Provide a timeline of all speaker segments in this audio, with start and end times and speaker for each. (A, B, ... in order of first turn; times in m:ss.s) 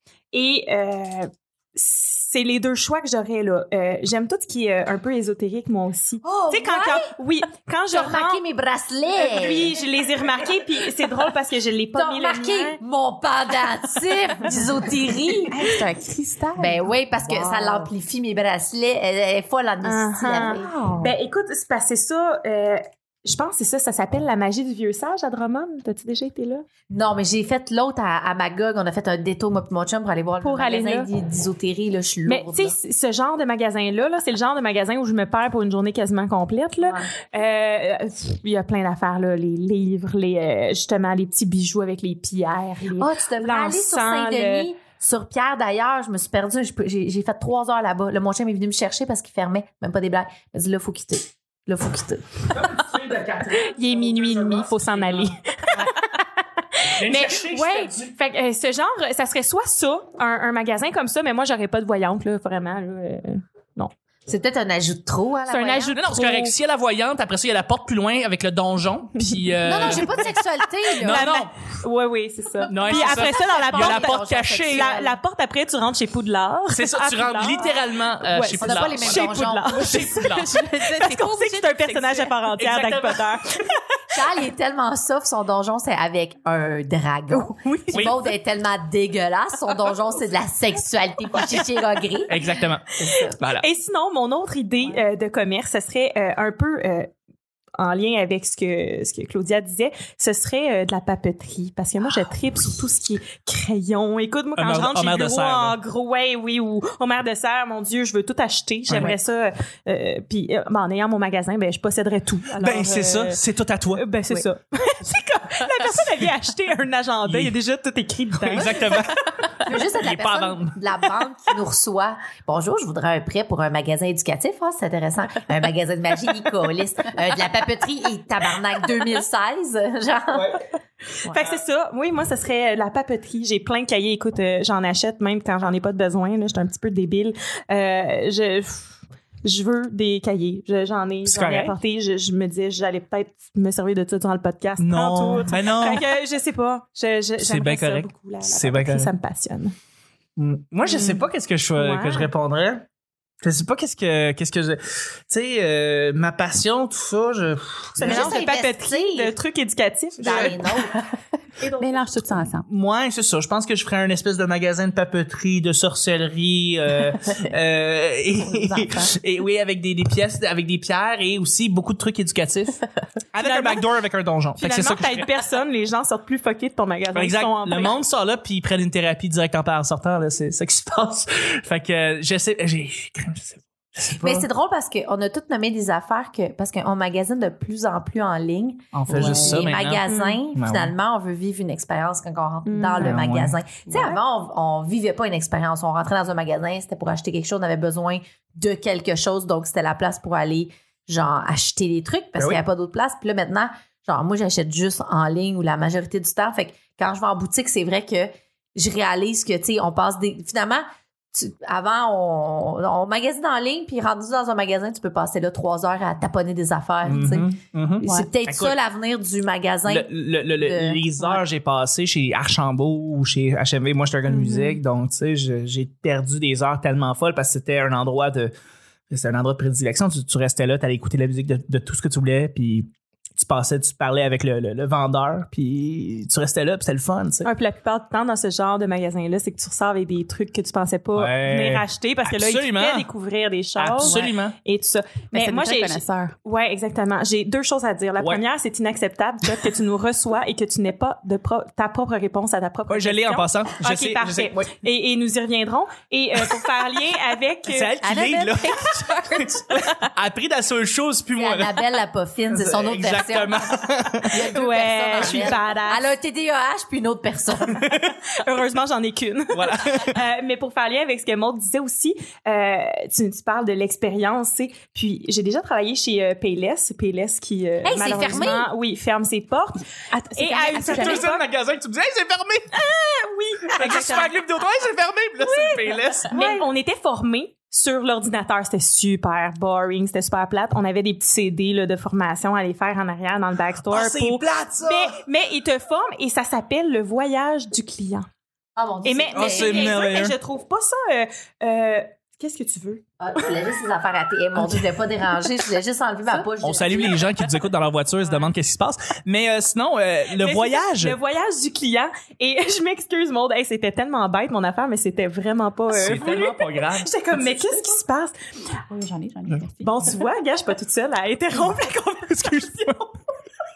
0:00.3-0:08.4 A
0:06.2-0:07.1 B
0:07.9-0:09.8 B
0:09.2-0:12.8 A
0:11.9-0:15.6 B
0:15.5-0:17.9 C
0:16.6-0:21.0 B
0:19.8-0:26.6 A
0:26.9-0:32.7 B
0:30.4-0:31.1 A
0:32.3-0:44.7 A
0:36.8-0:37.1 B
0:43.0-0:52.6 B
0:52.5-0:55.3 D
0:53.5-1:03.9 A
0:57.0-0:58.1 D
1:04.3-1:06.0 B
1:05.5-1:10.3 D
1:06.0-1:06.5 A
1:09.2-1:10.2 A
1:09.6-1:11.3 B
1:11.0-1:11.5 D
1:11.0-1:23.8 A
1:12.7-1:14.9 D
1:12.8-1:15.2 B
1:16.7-1:20.5 D
1:18.6-1:19.8 B
1:19.8-1:22.4 C
1:22.6-1:23.4 D
1:24.1-1:32.3 B
1:27.3-1:28.1 C
1:32.3-1:32.9 D
1:33.0-1:33.4 B
1:33.4-1:33.6 D
1:33.6-1:37.1 A
1:37.8-1:53.4 A
1:44.6-1:45.8 D
1:48.9-1:49.1 D
1:52.6-1:54.0 D
1:53.9-1:59.0 A
1:57.3-1:57.5 D
1:58.4-2:00.8 D
1:59.6-2:10.6 B
2:10.3-2:10.6 D
2:11.2-2:29.7 A
2:11.3-2:11.6 D
2:21.2-2:21.7 D
2:24.8-2:26.0 D
2:27.4-2:29.1 D
2:30.4-2:32.8 D
2:30.8-2:32.3 A
2:33.4-2:38.4 D
2:38.0-2:40.7 A
2:38.0-2:39.4 B
2:40.2-2:40.7 D
2:40.2-2:41.0 B
2:41.6-2:42.0 A
2:41.7-2:42.6 C
2:42.6-2:52.8 D
2:48.4-2:49.1 C
2:53.3-2:55.3 D
2:53.4-2:53.9 A
2:54.6-2:58.0 A
2:57.1-3:04.4 D
3:04.2-3:41.4 B
3:08.9-3:10.9 D
3:09.1-3:09.7 C
3:10.1-3:10.4 A
3:12.6-3:13.2 A
3:13.0-3:13.6 D
3:22.4-3:22.6 D
3:37.0-3:38.8 D
3:38.0-3:38.3 C
3:39.8-3:48.5 D
3:44.3-3:44.7 A
3:49.1-3:57.5 D
3:57.4-4:18.2 A
4:01.1-4:03.1 D
4:03.8-4:04.6 D
4:05.3-4:06.3 C
4:12.9-4:14.7 D
4:17.6-4:21.9 D
4:18.3-4:18.6 B
4:21.3-4:27.9 B
4:22.5-4:24.5 D
4:24.5-4:26.0 A
4:25.2-4:25.5 D
4:27.8-4:28.1 D
4:28.3-4:41.4 A
4:29.5-4:30.2 D
4:37.8-4:38.7 B
4:40.1-4:41.3 C
4:40.7-4:42.8 D
4:42.7-4:44.3 A
4:43.7-4:46.3 D
4:45.4-4:58.3 A
4:46.3-4:46.6 C
4:53.9-4:55.2 D
4:58.8-5:00.0 B
4:59.0-5:03.0 A
4:59.3-5:00.3 D
5:03.2-5:07.3 B
5:06.6-5:11.2 D
5:10.4-5:18.4 A
5:15.9-5:17.6 D
5:18.9-5:20.1 C
5:19.8-5:22.8 A
5:22.3-5:23.1 D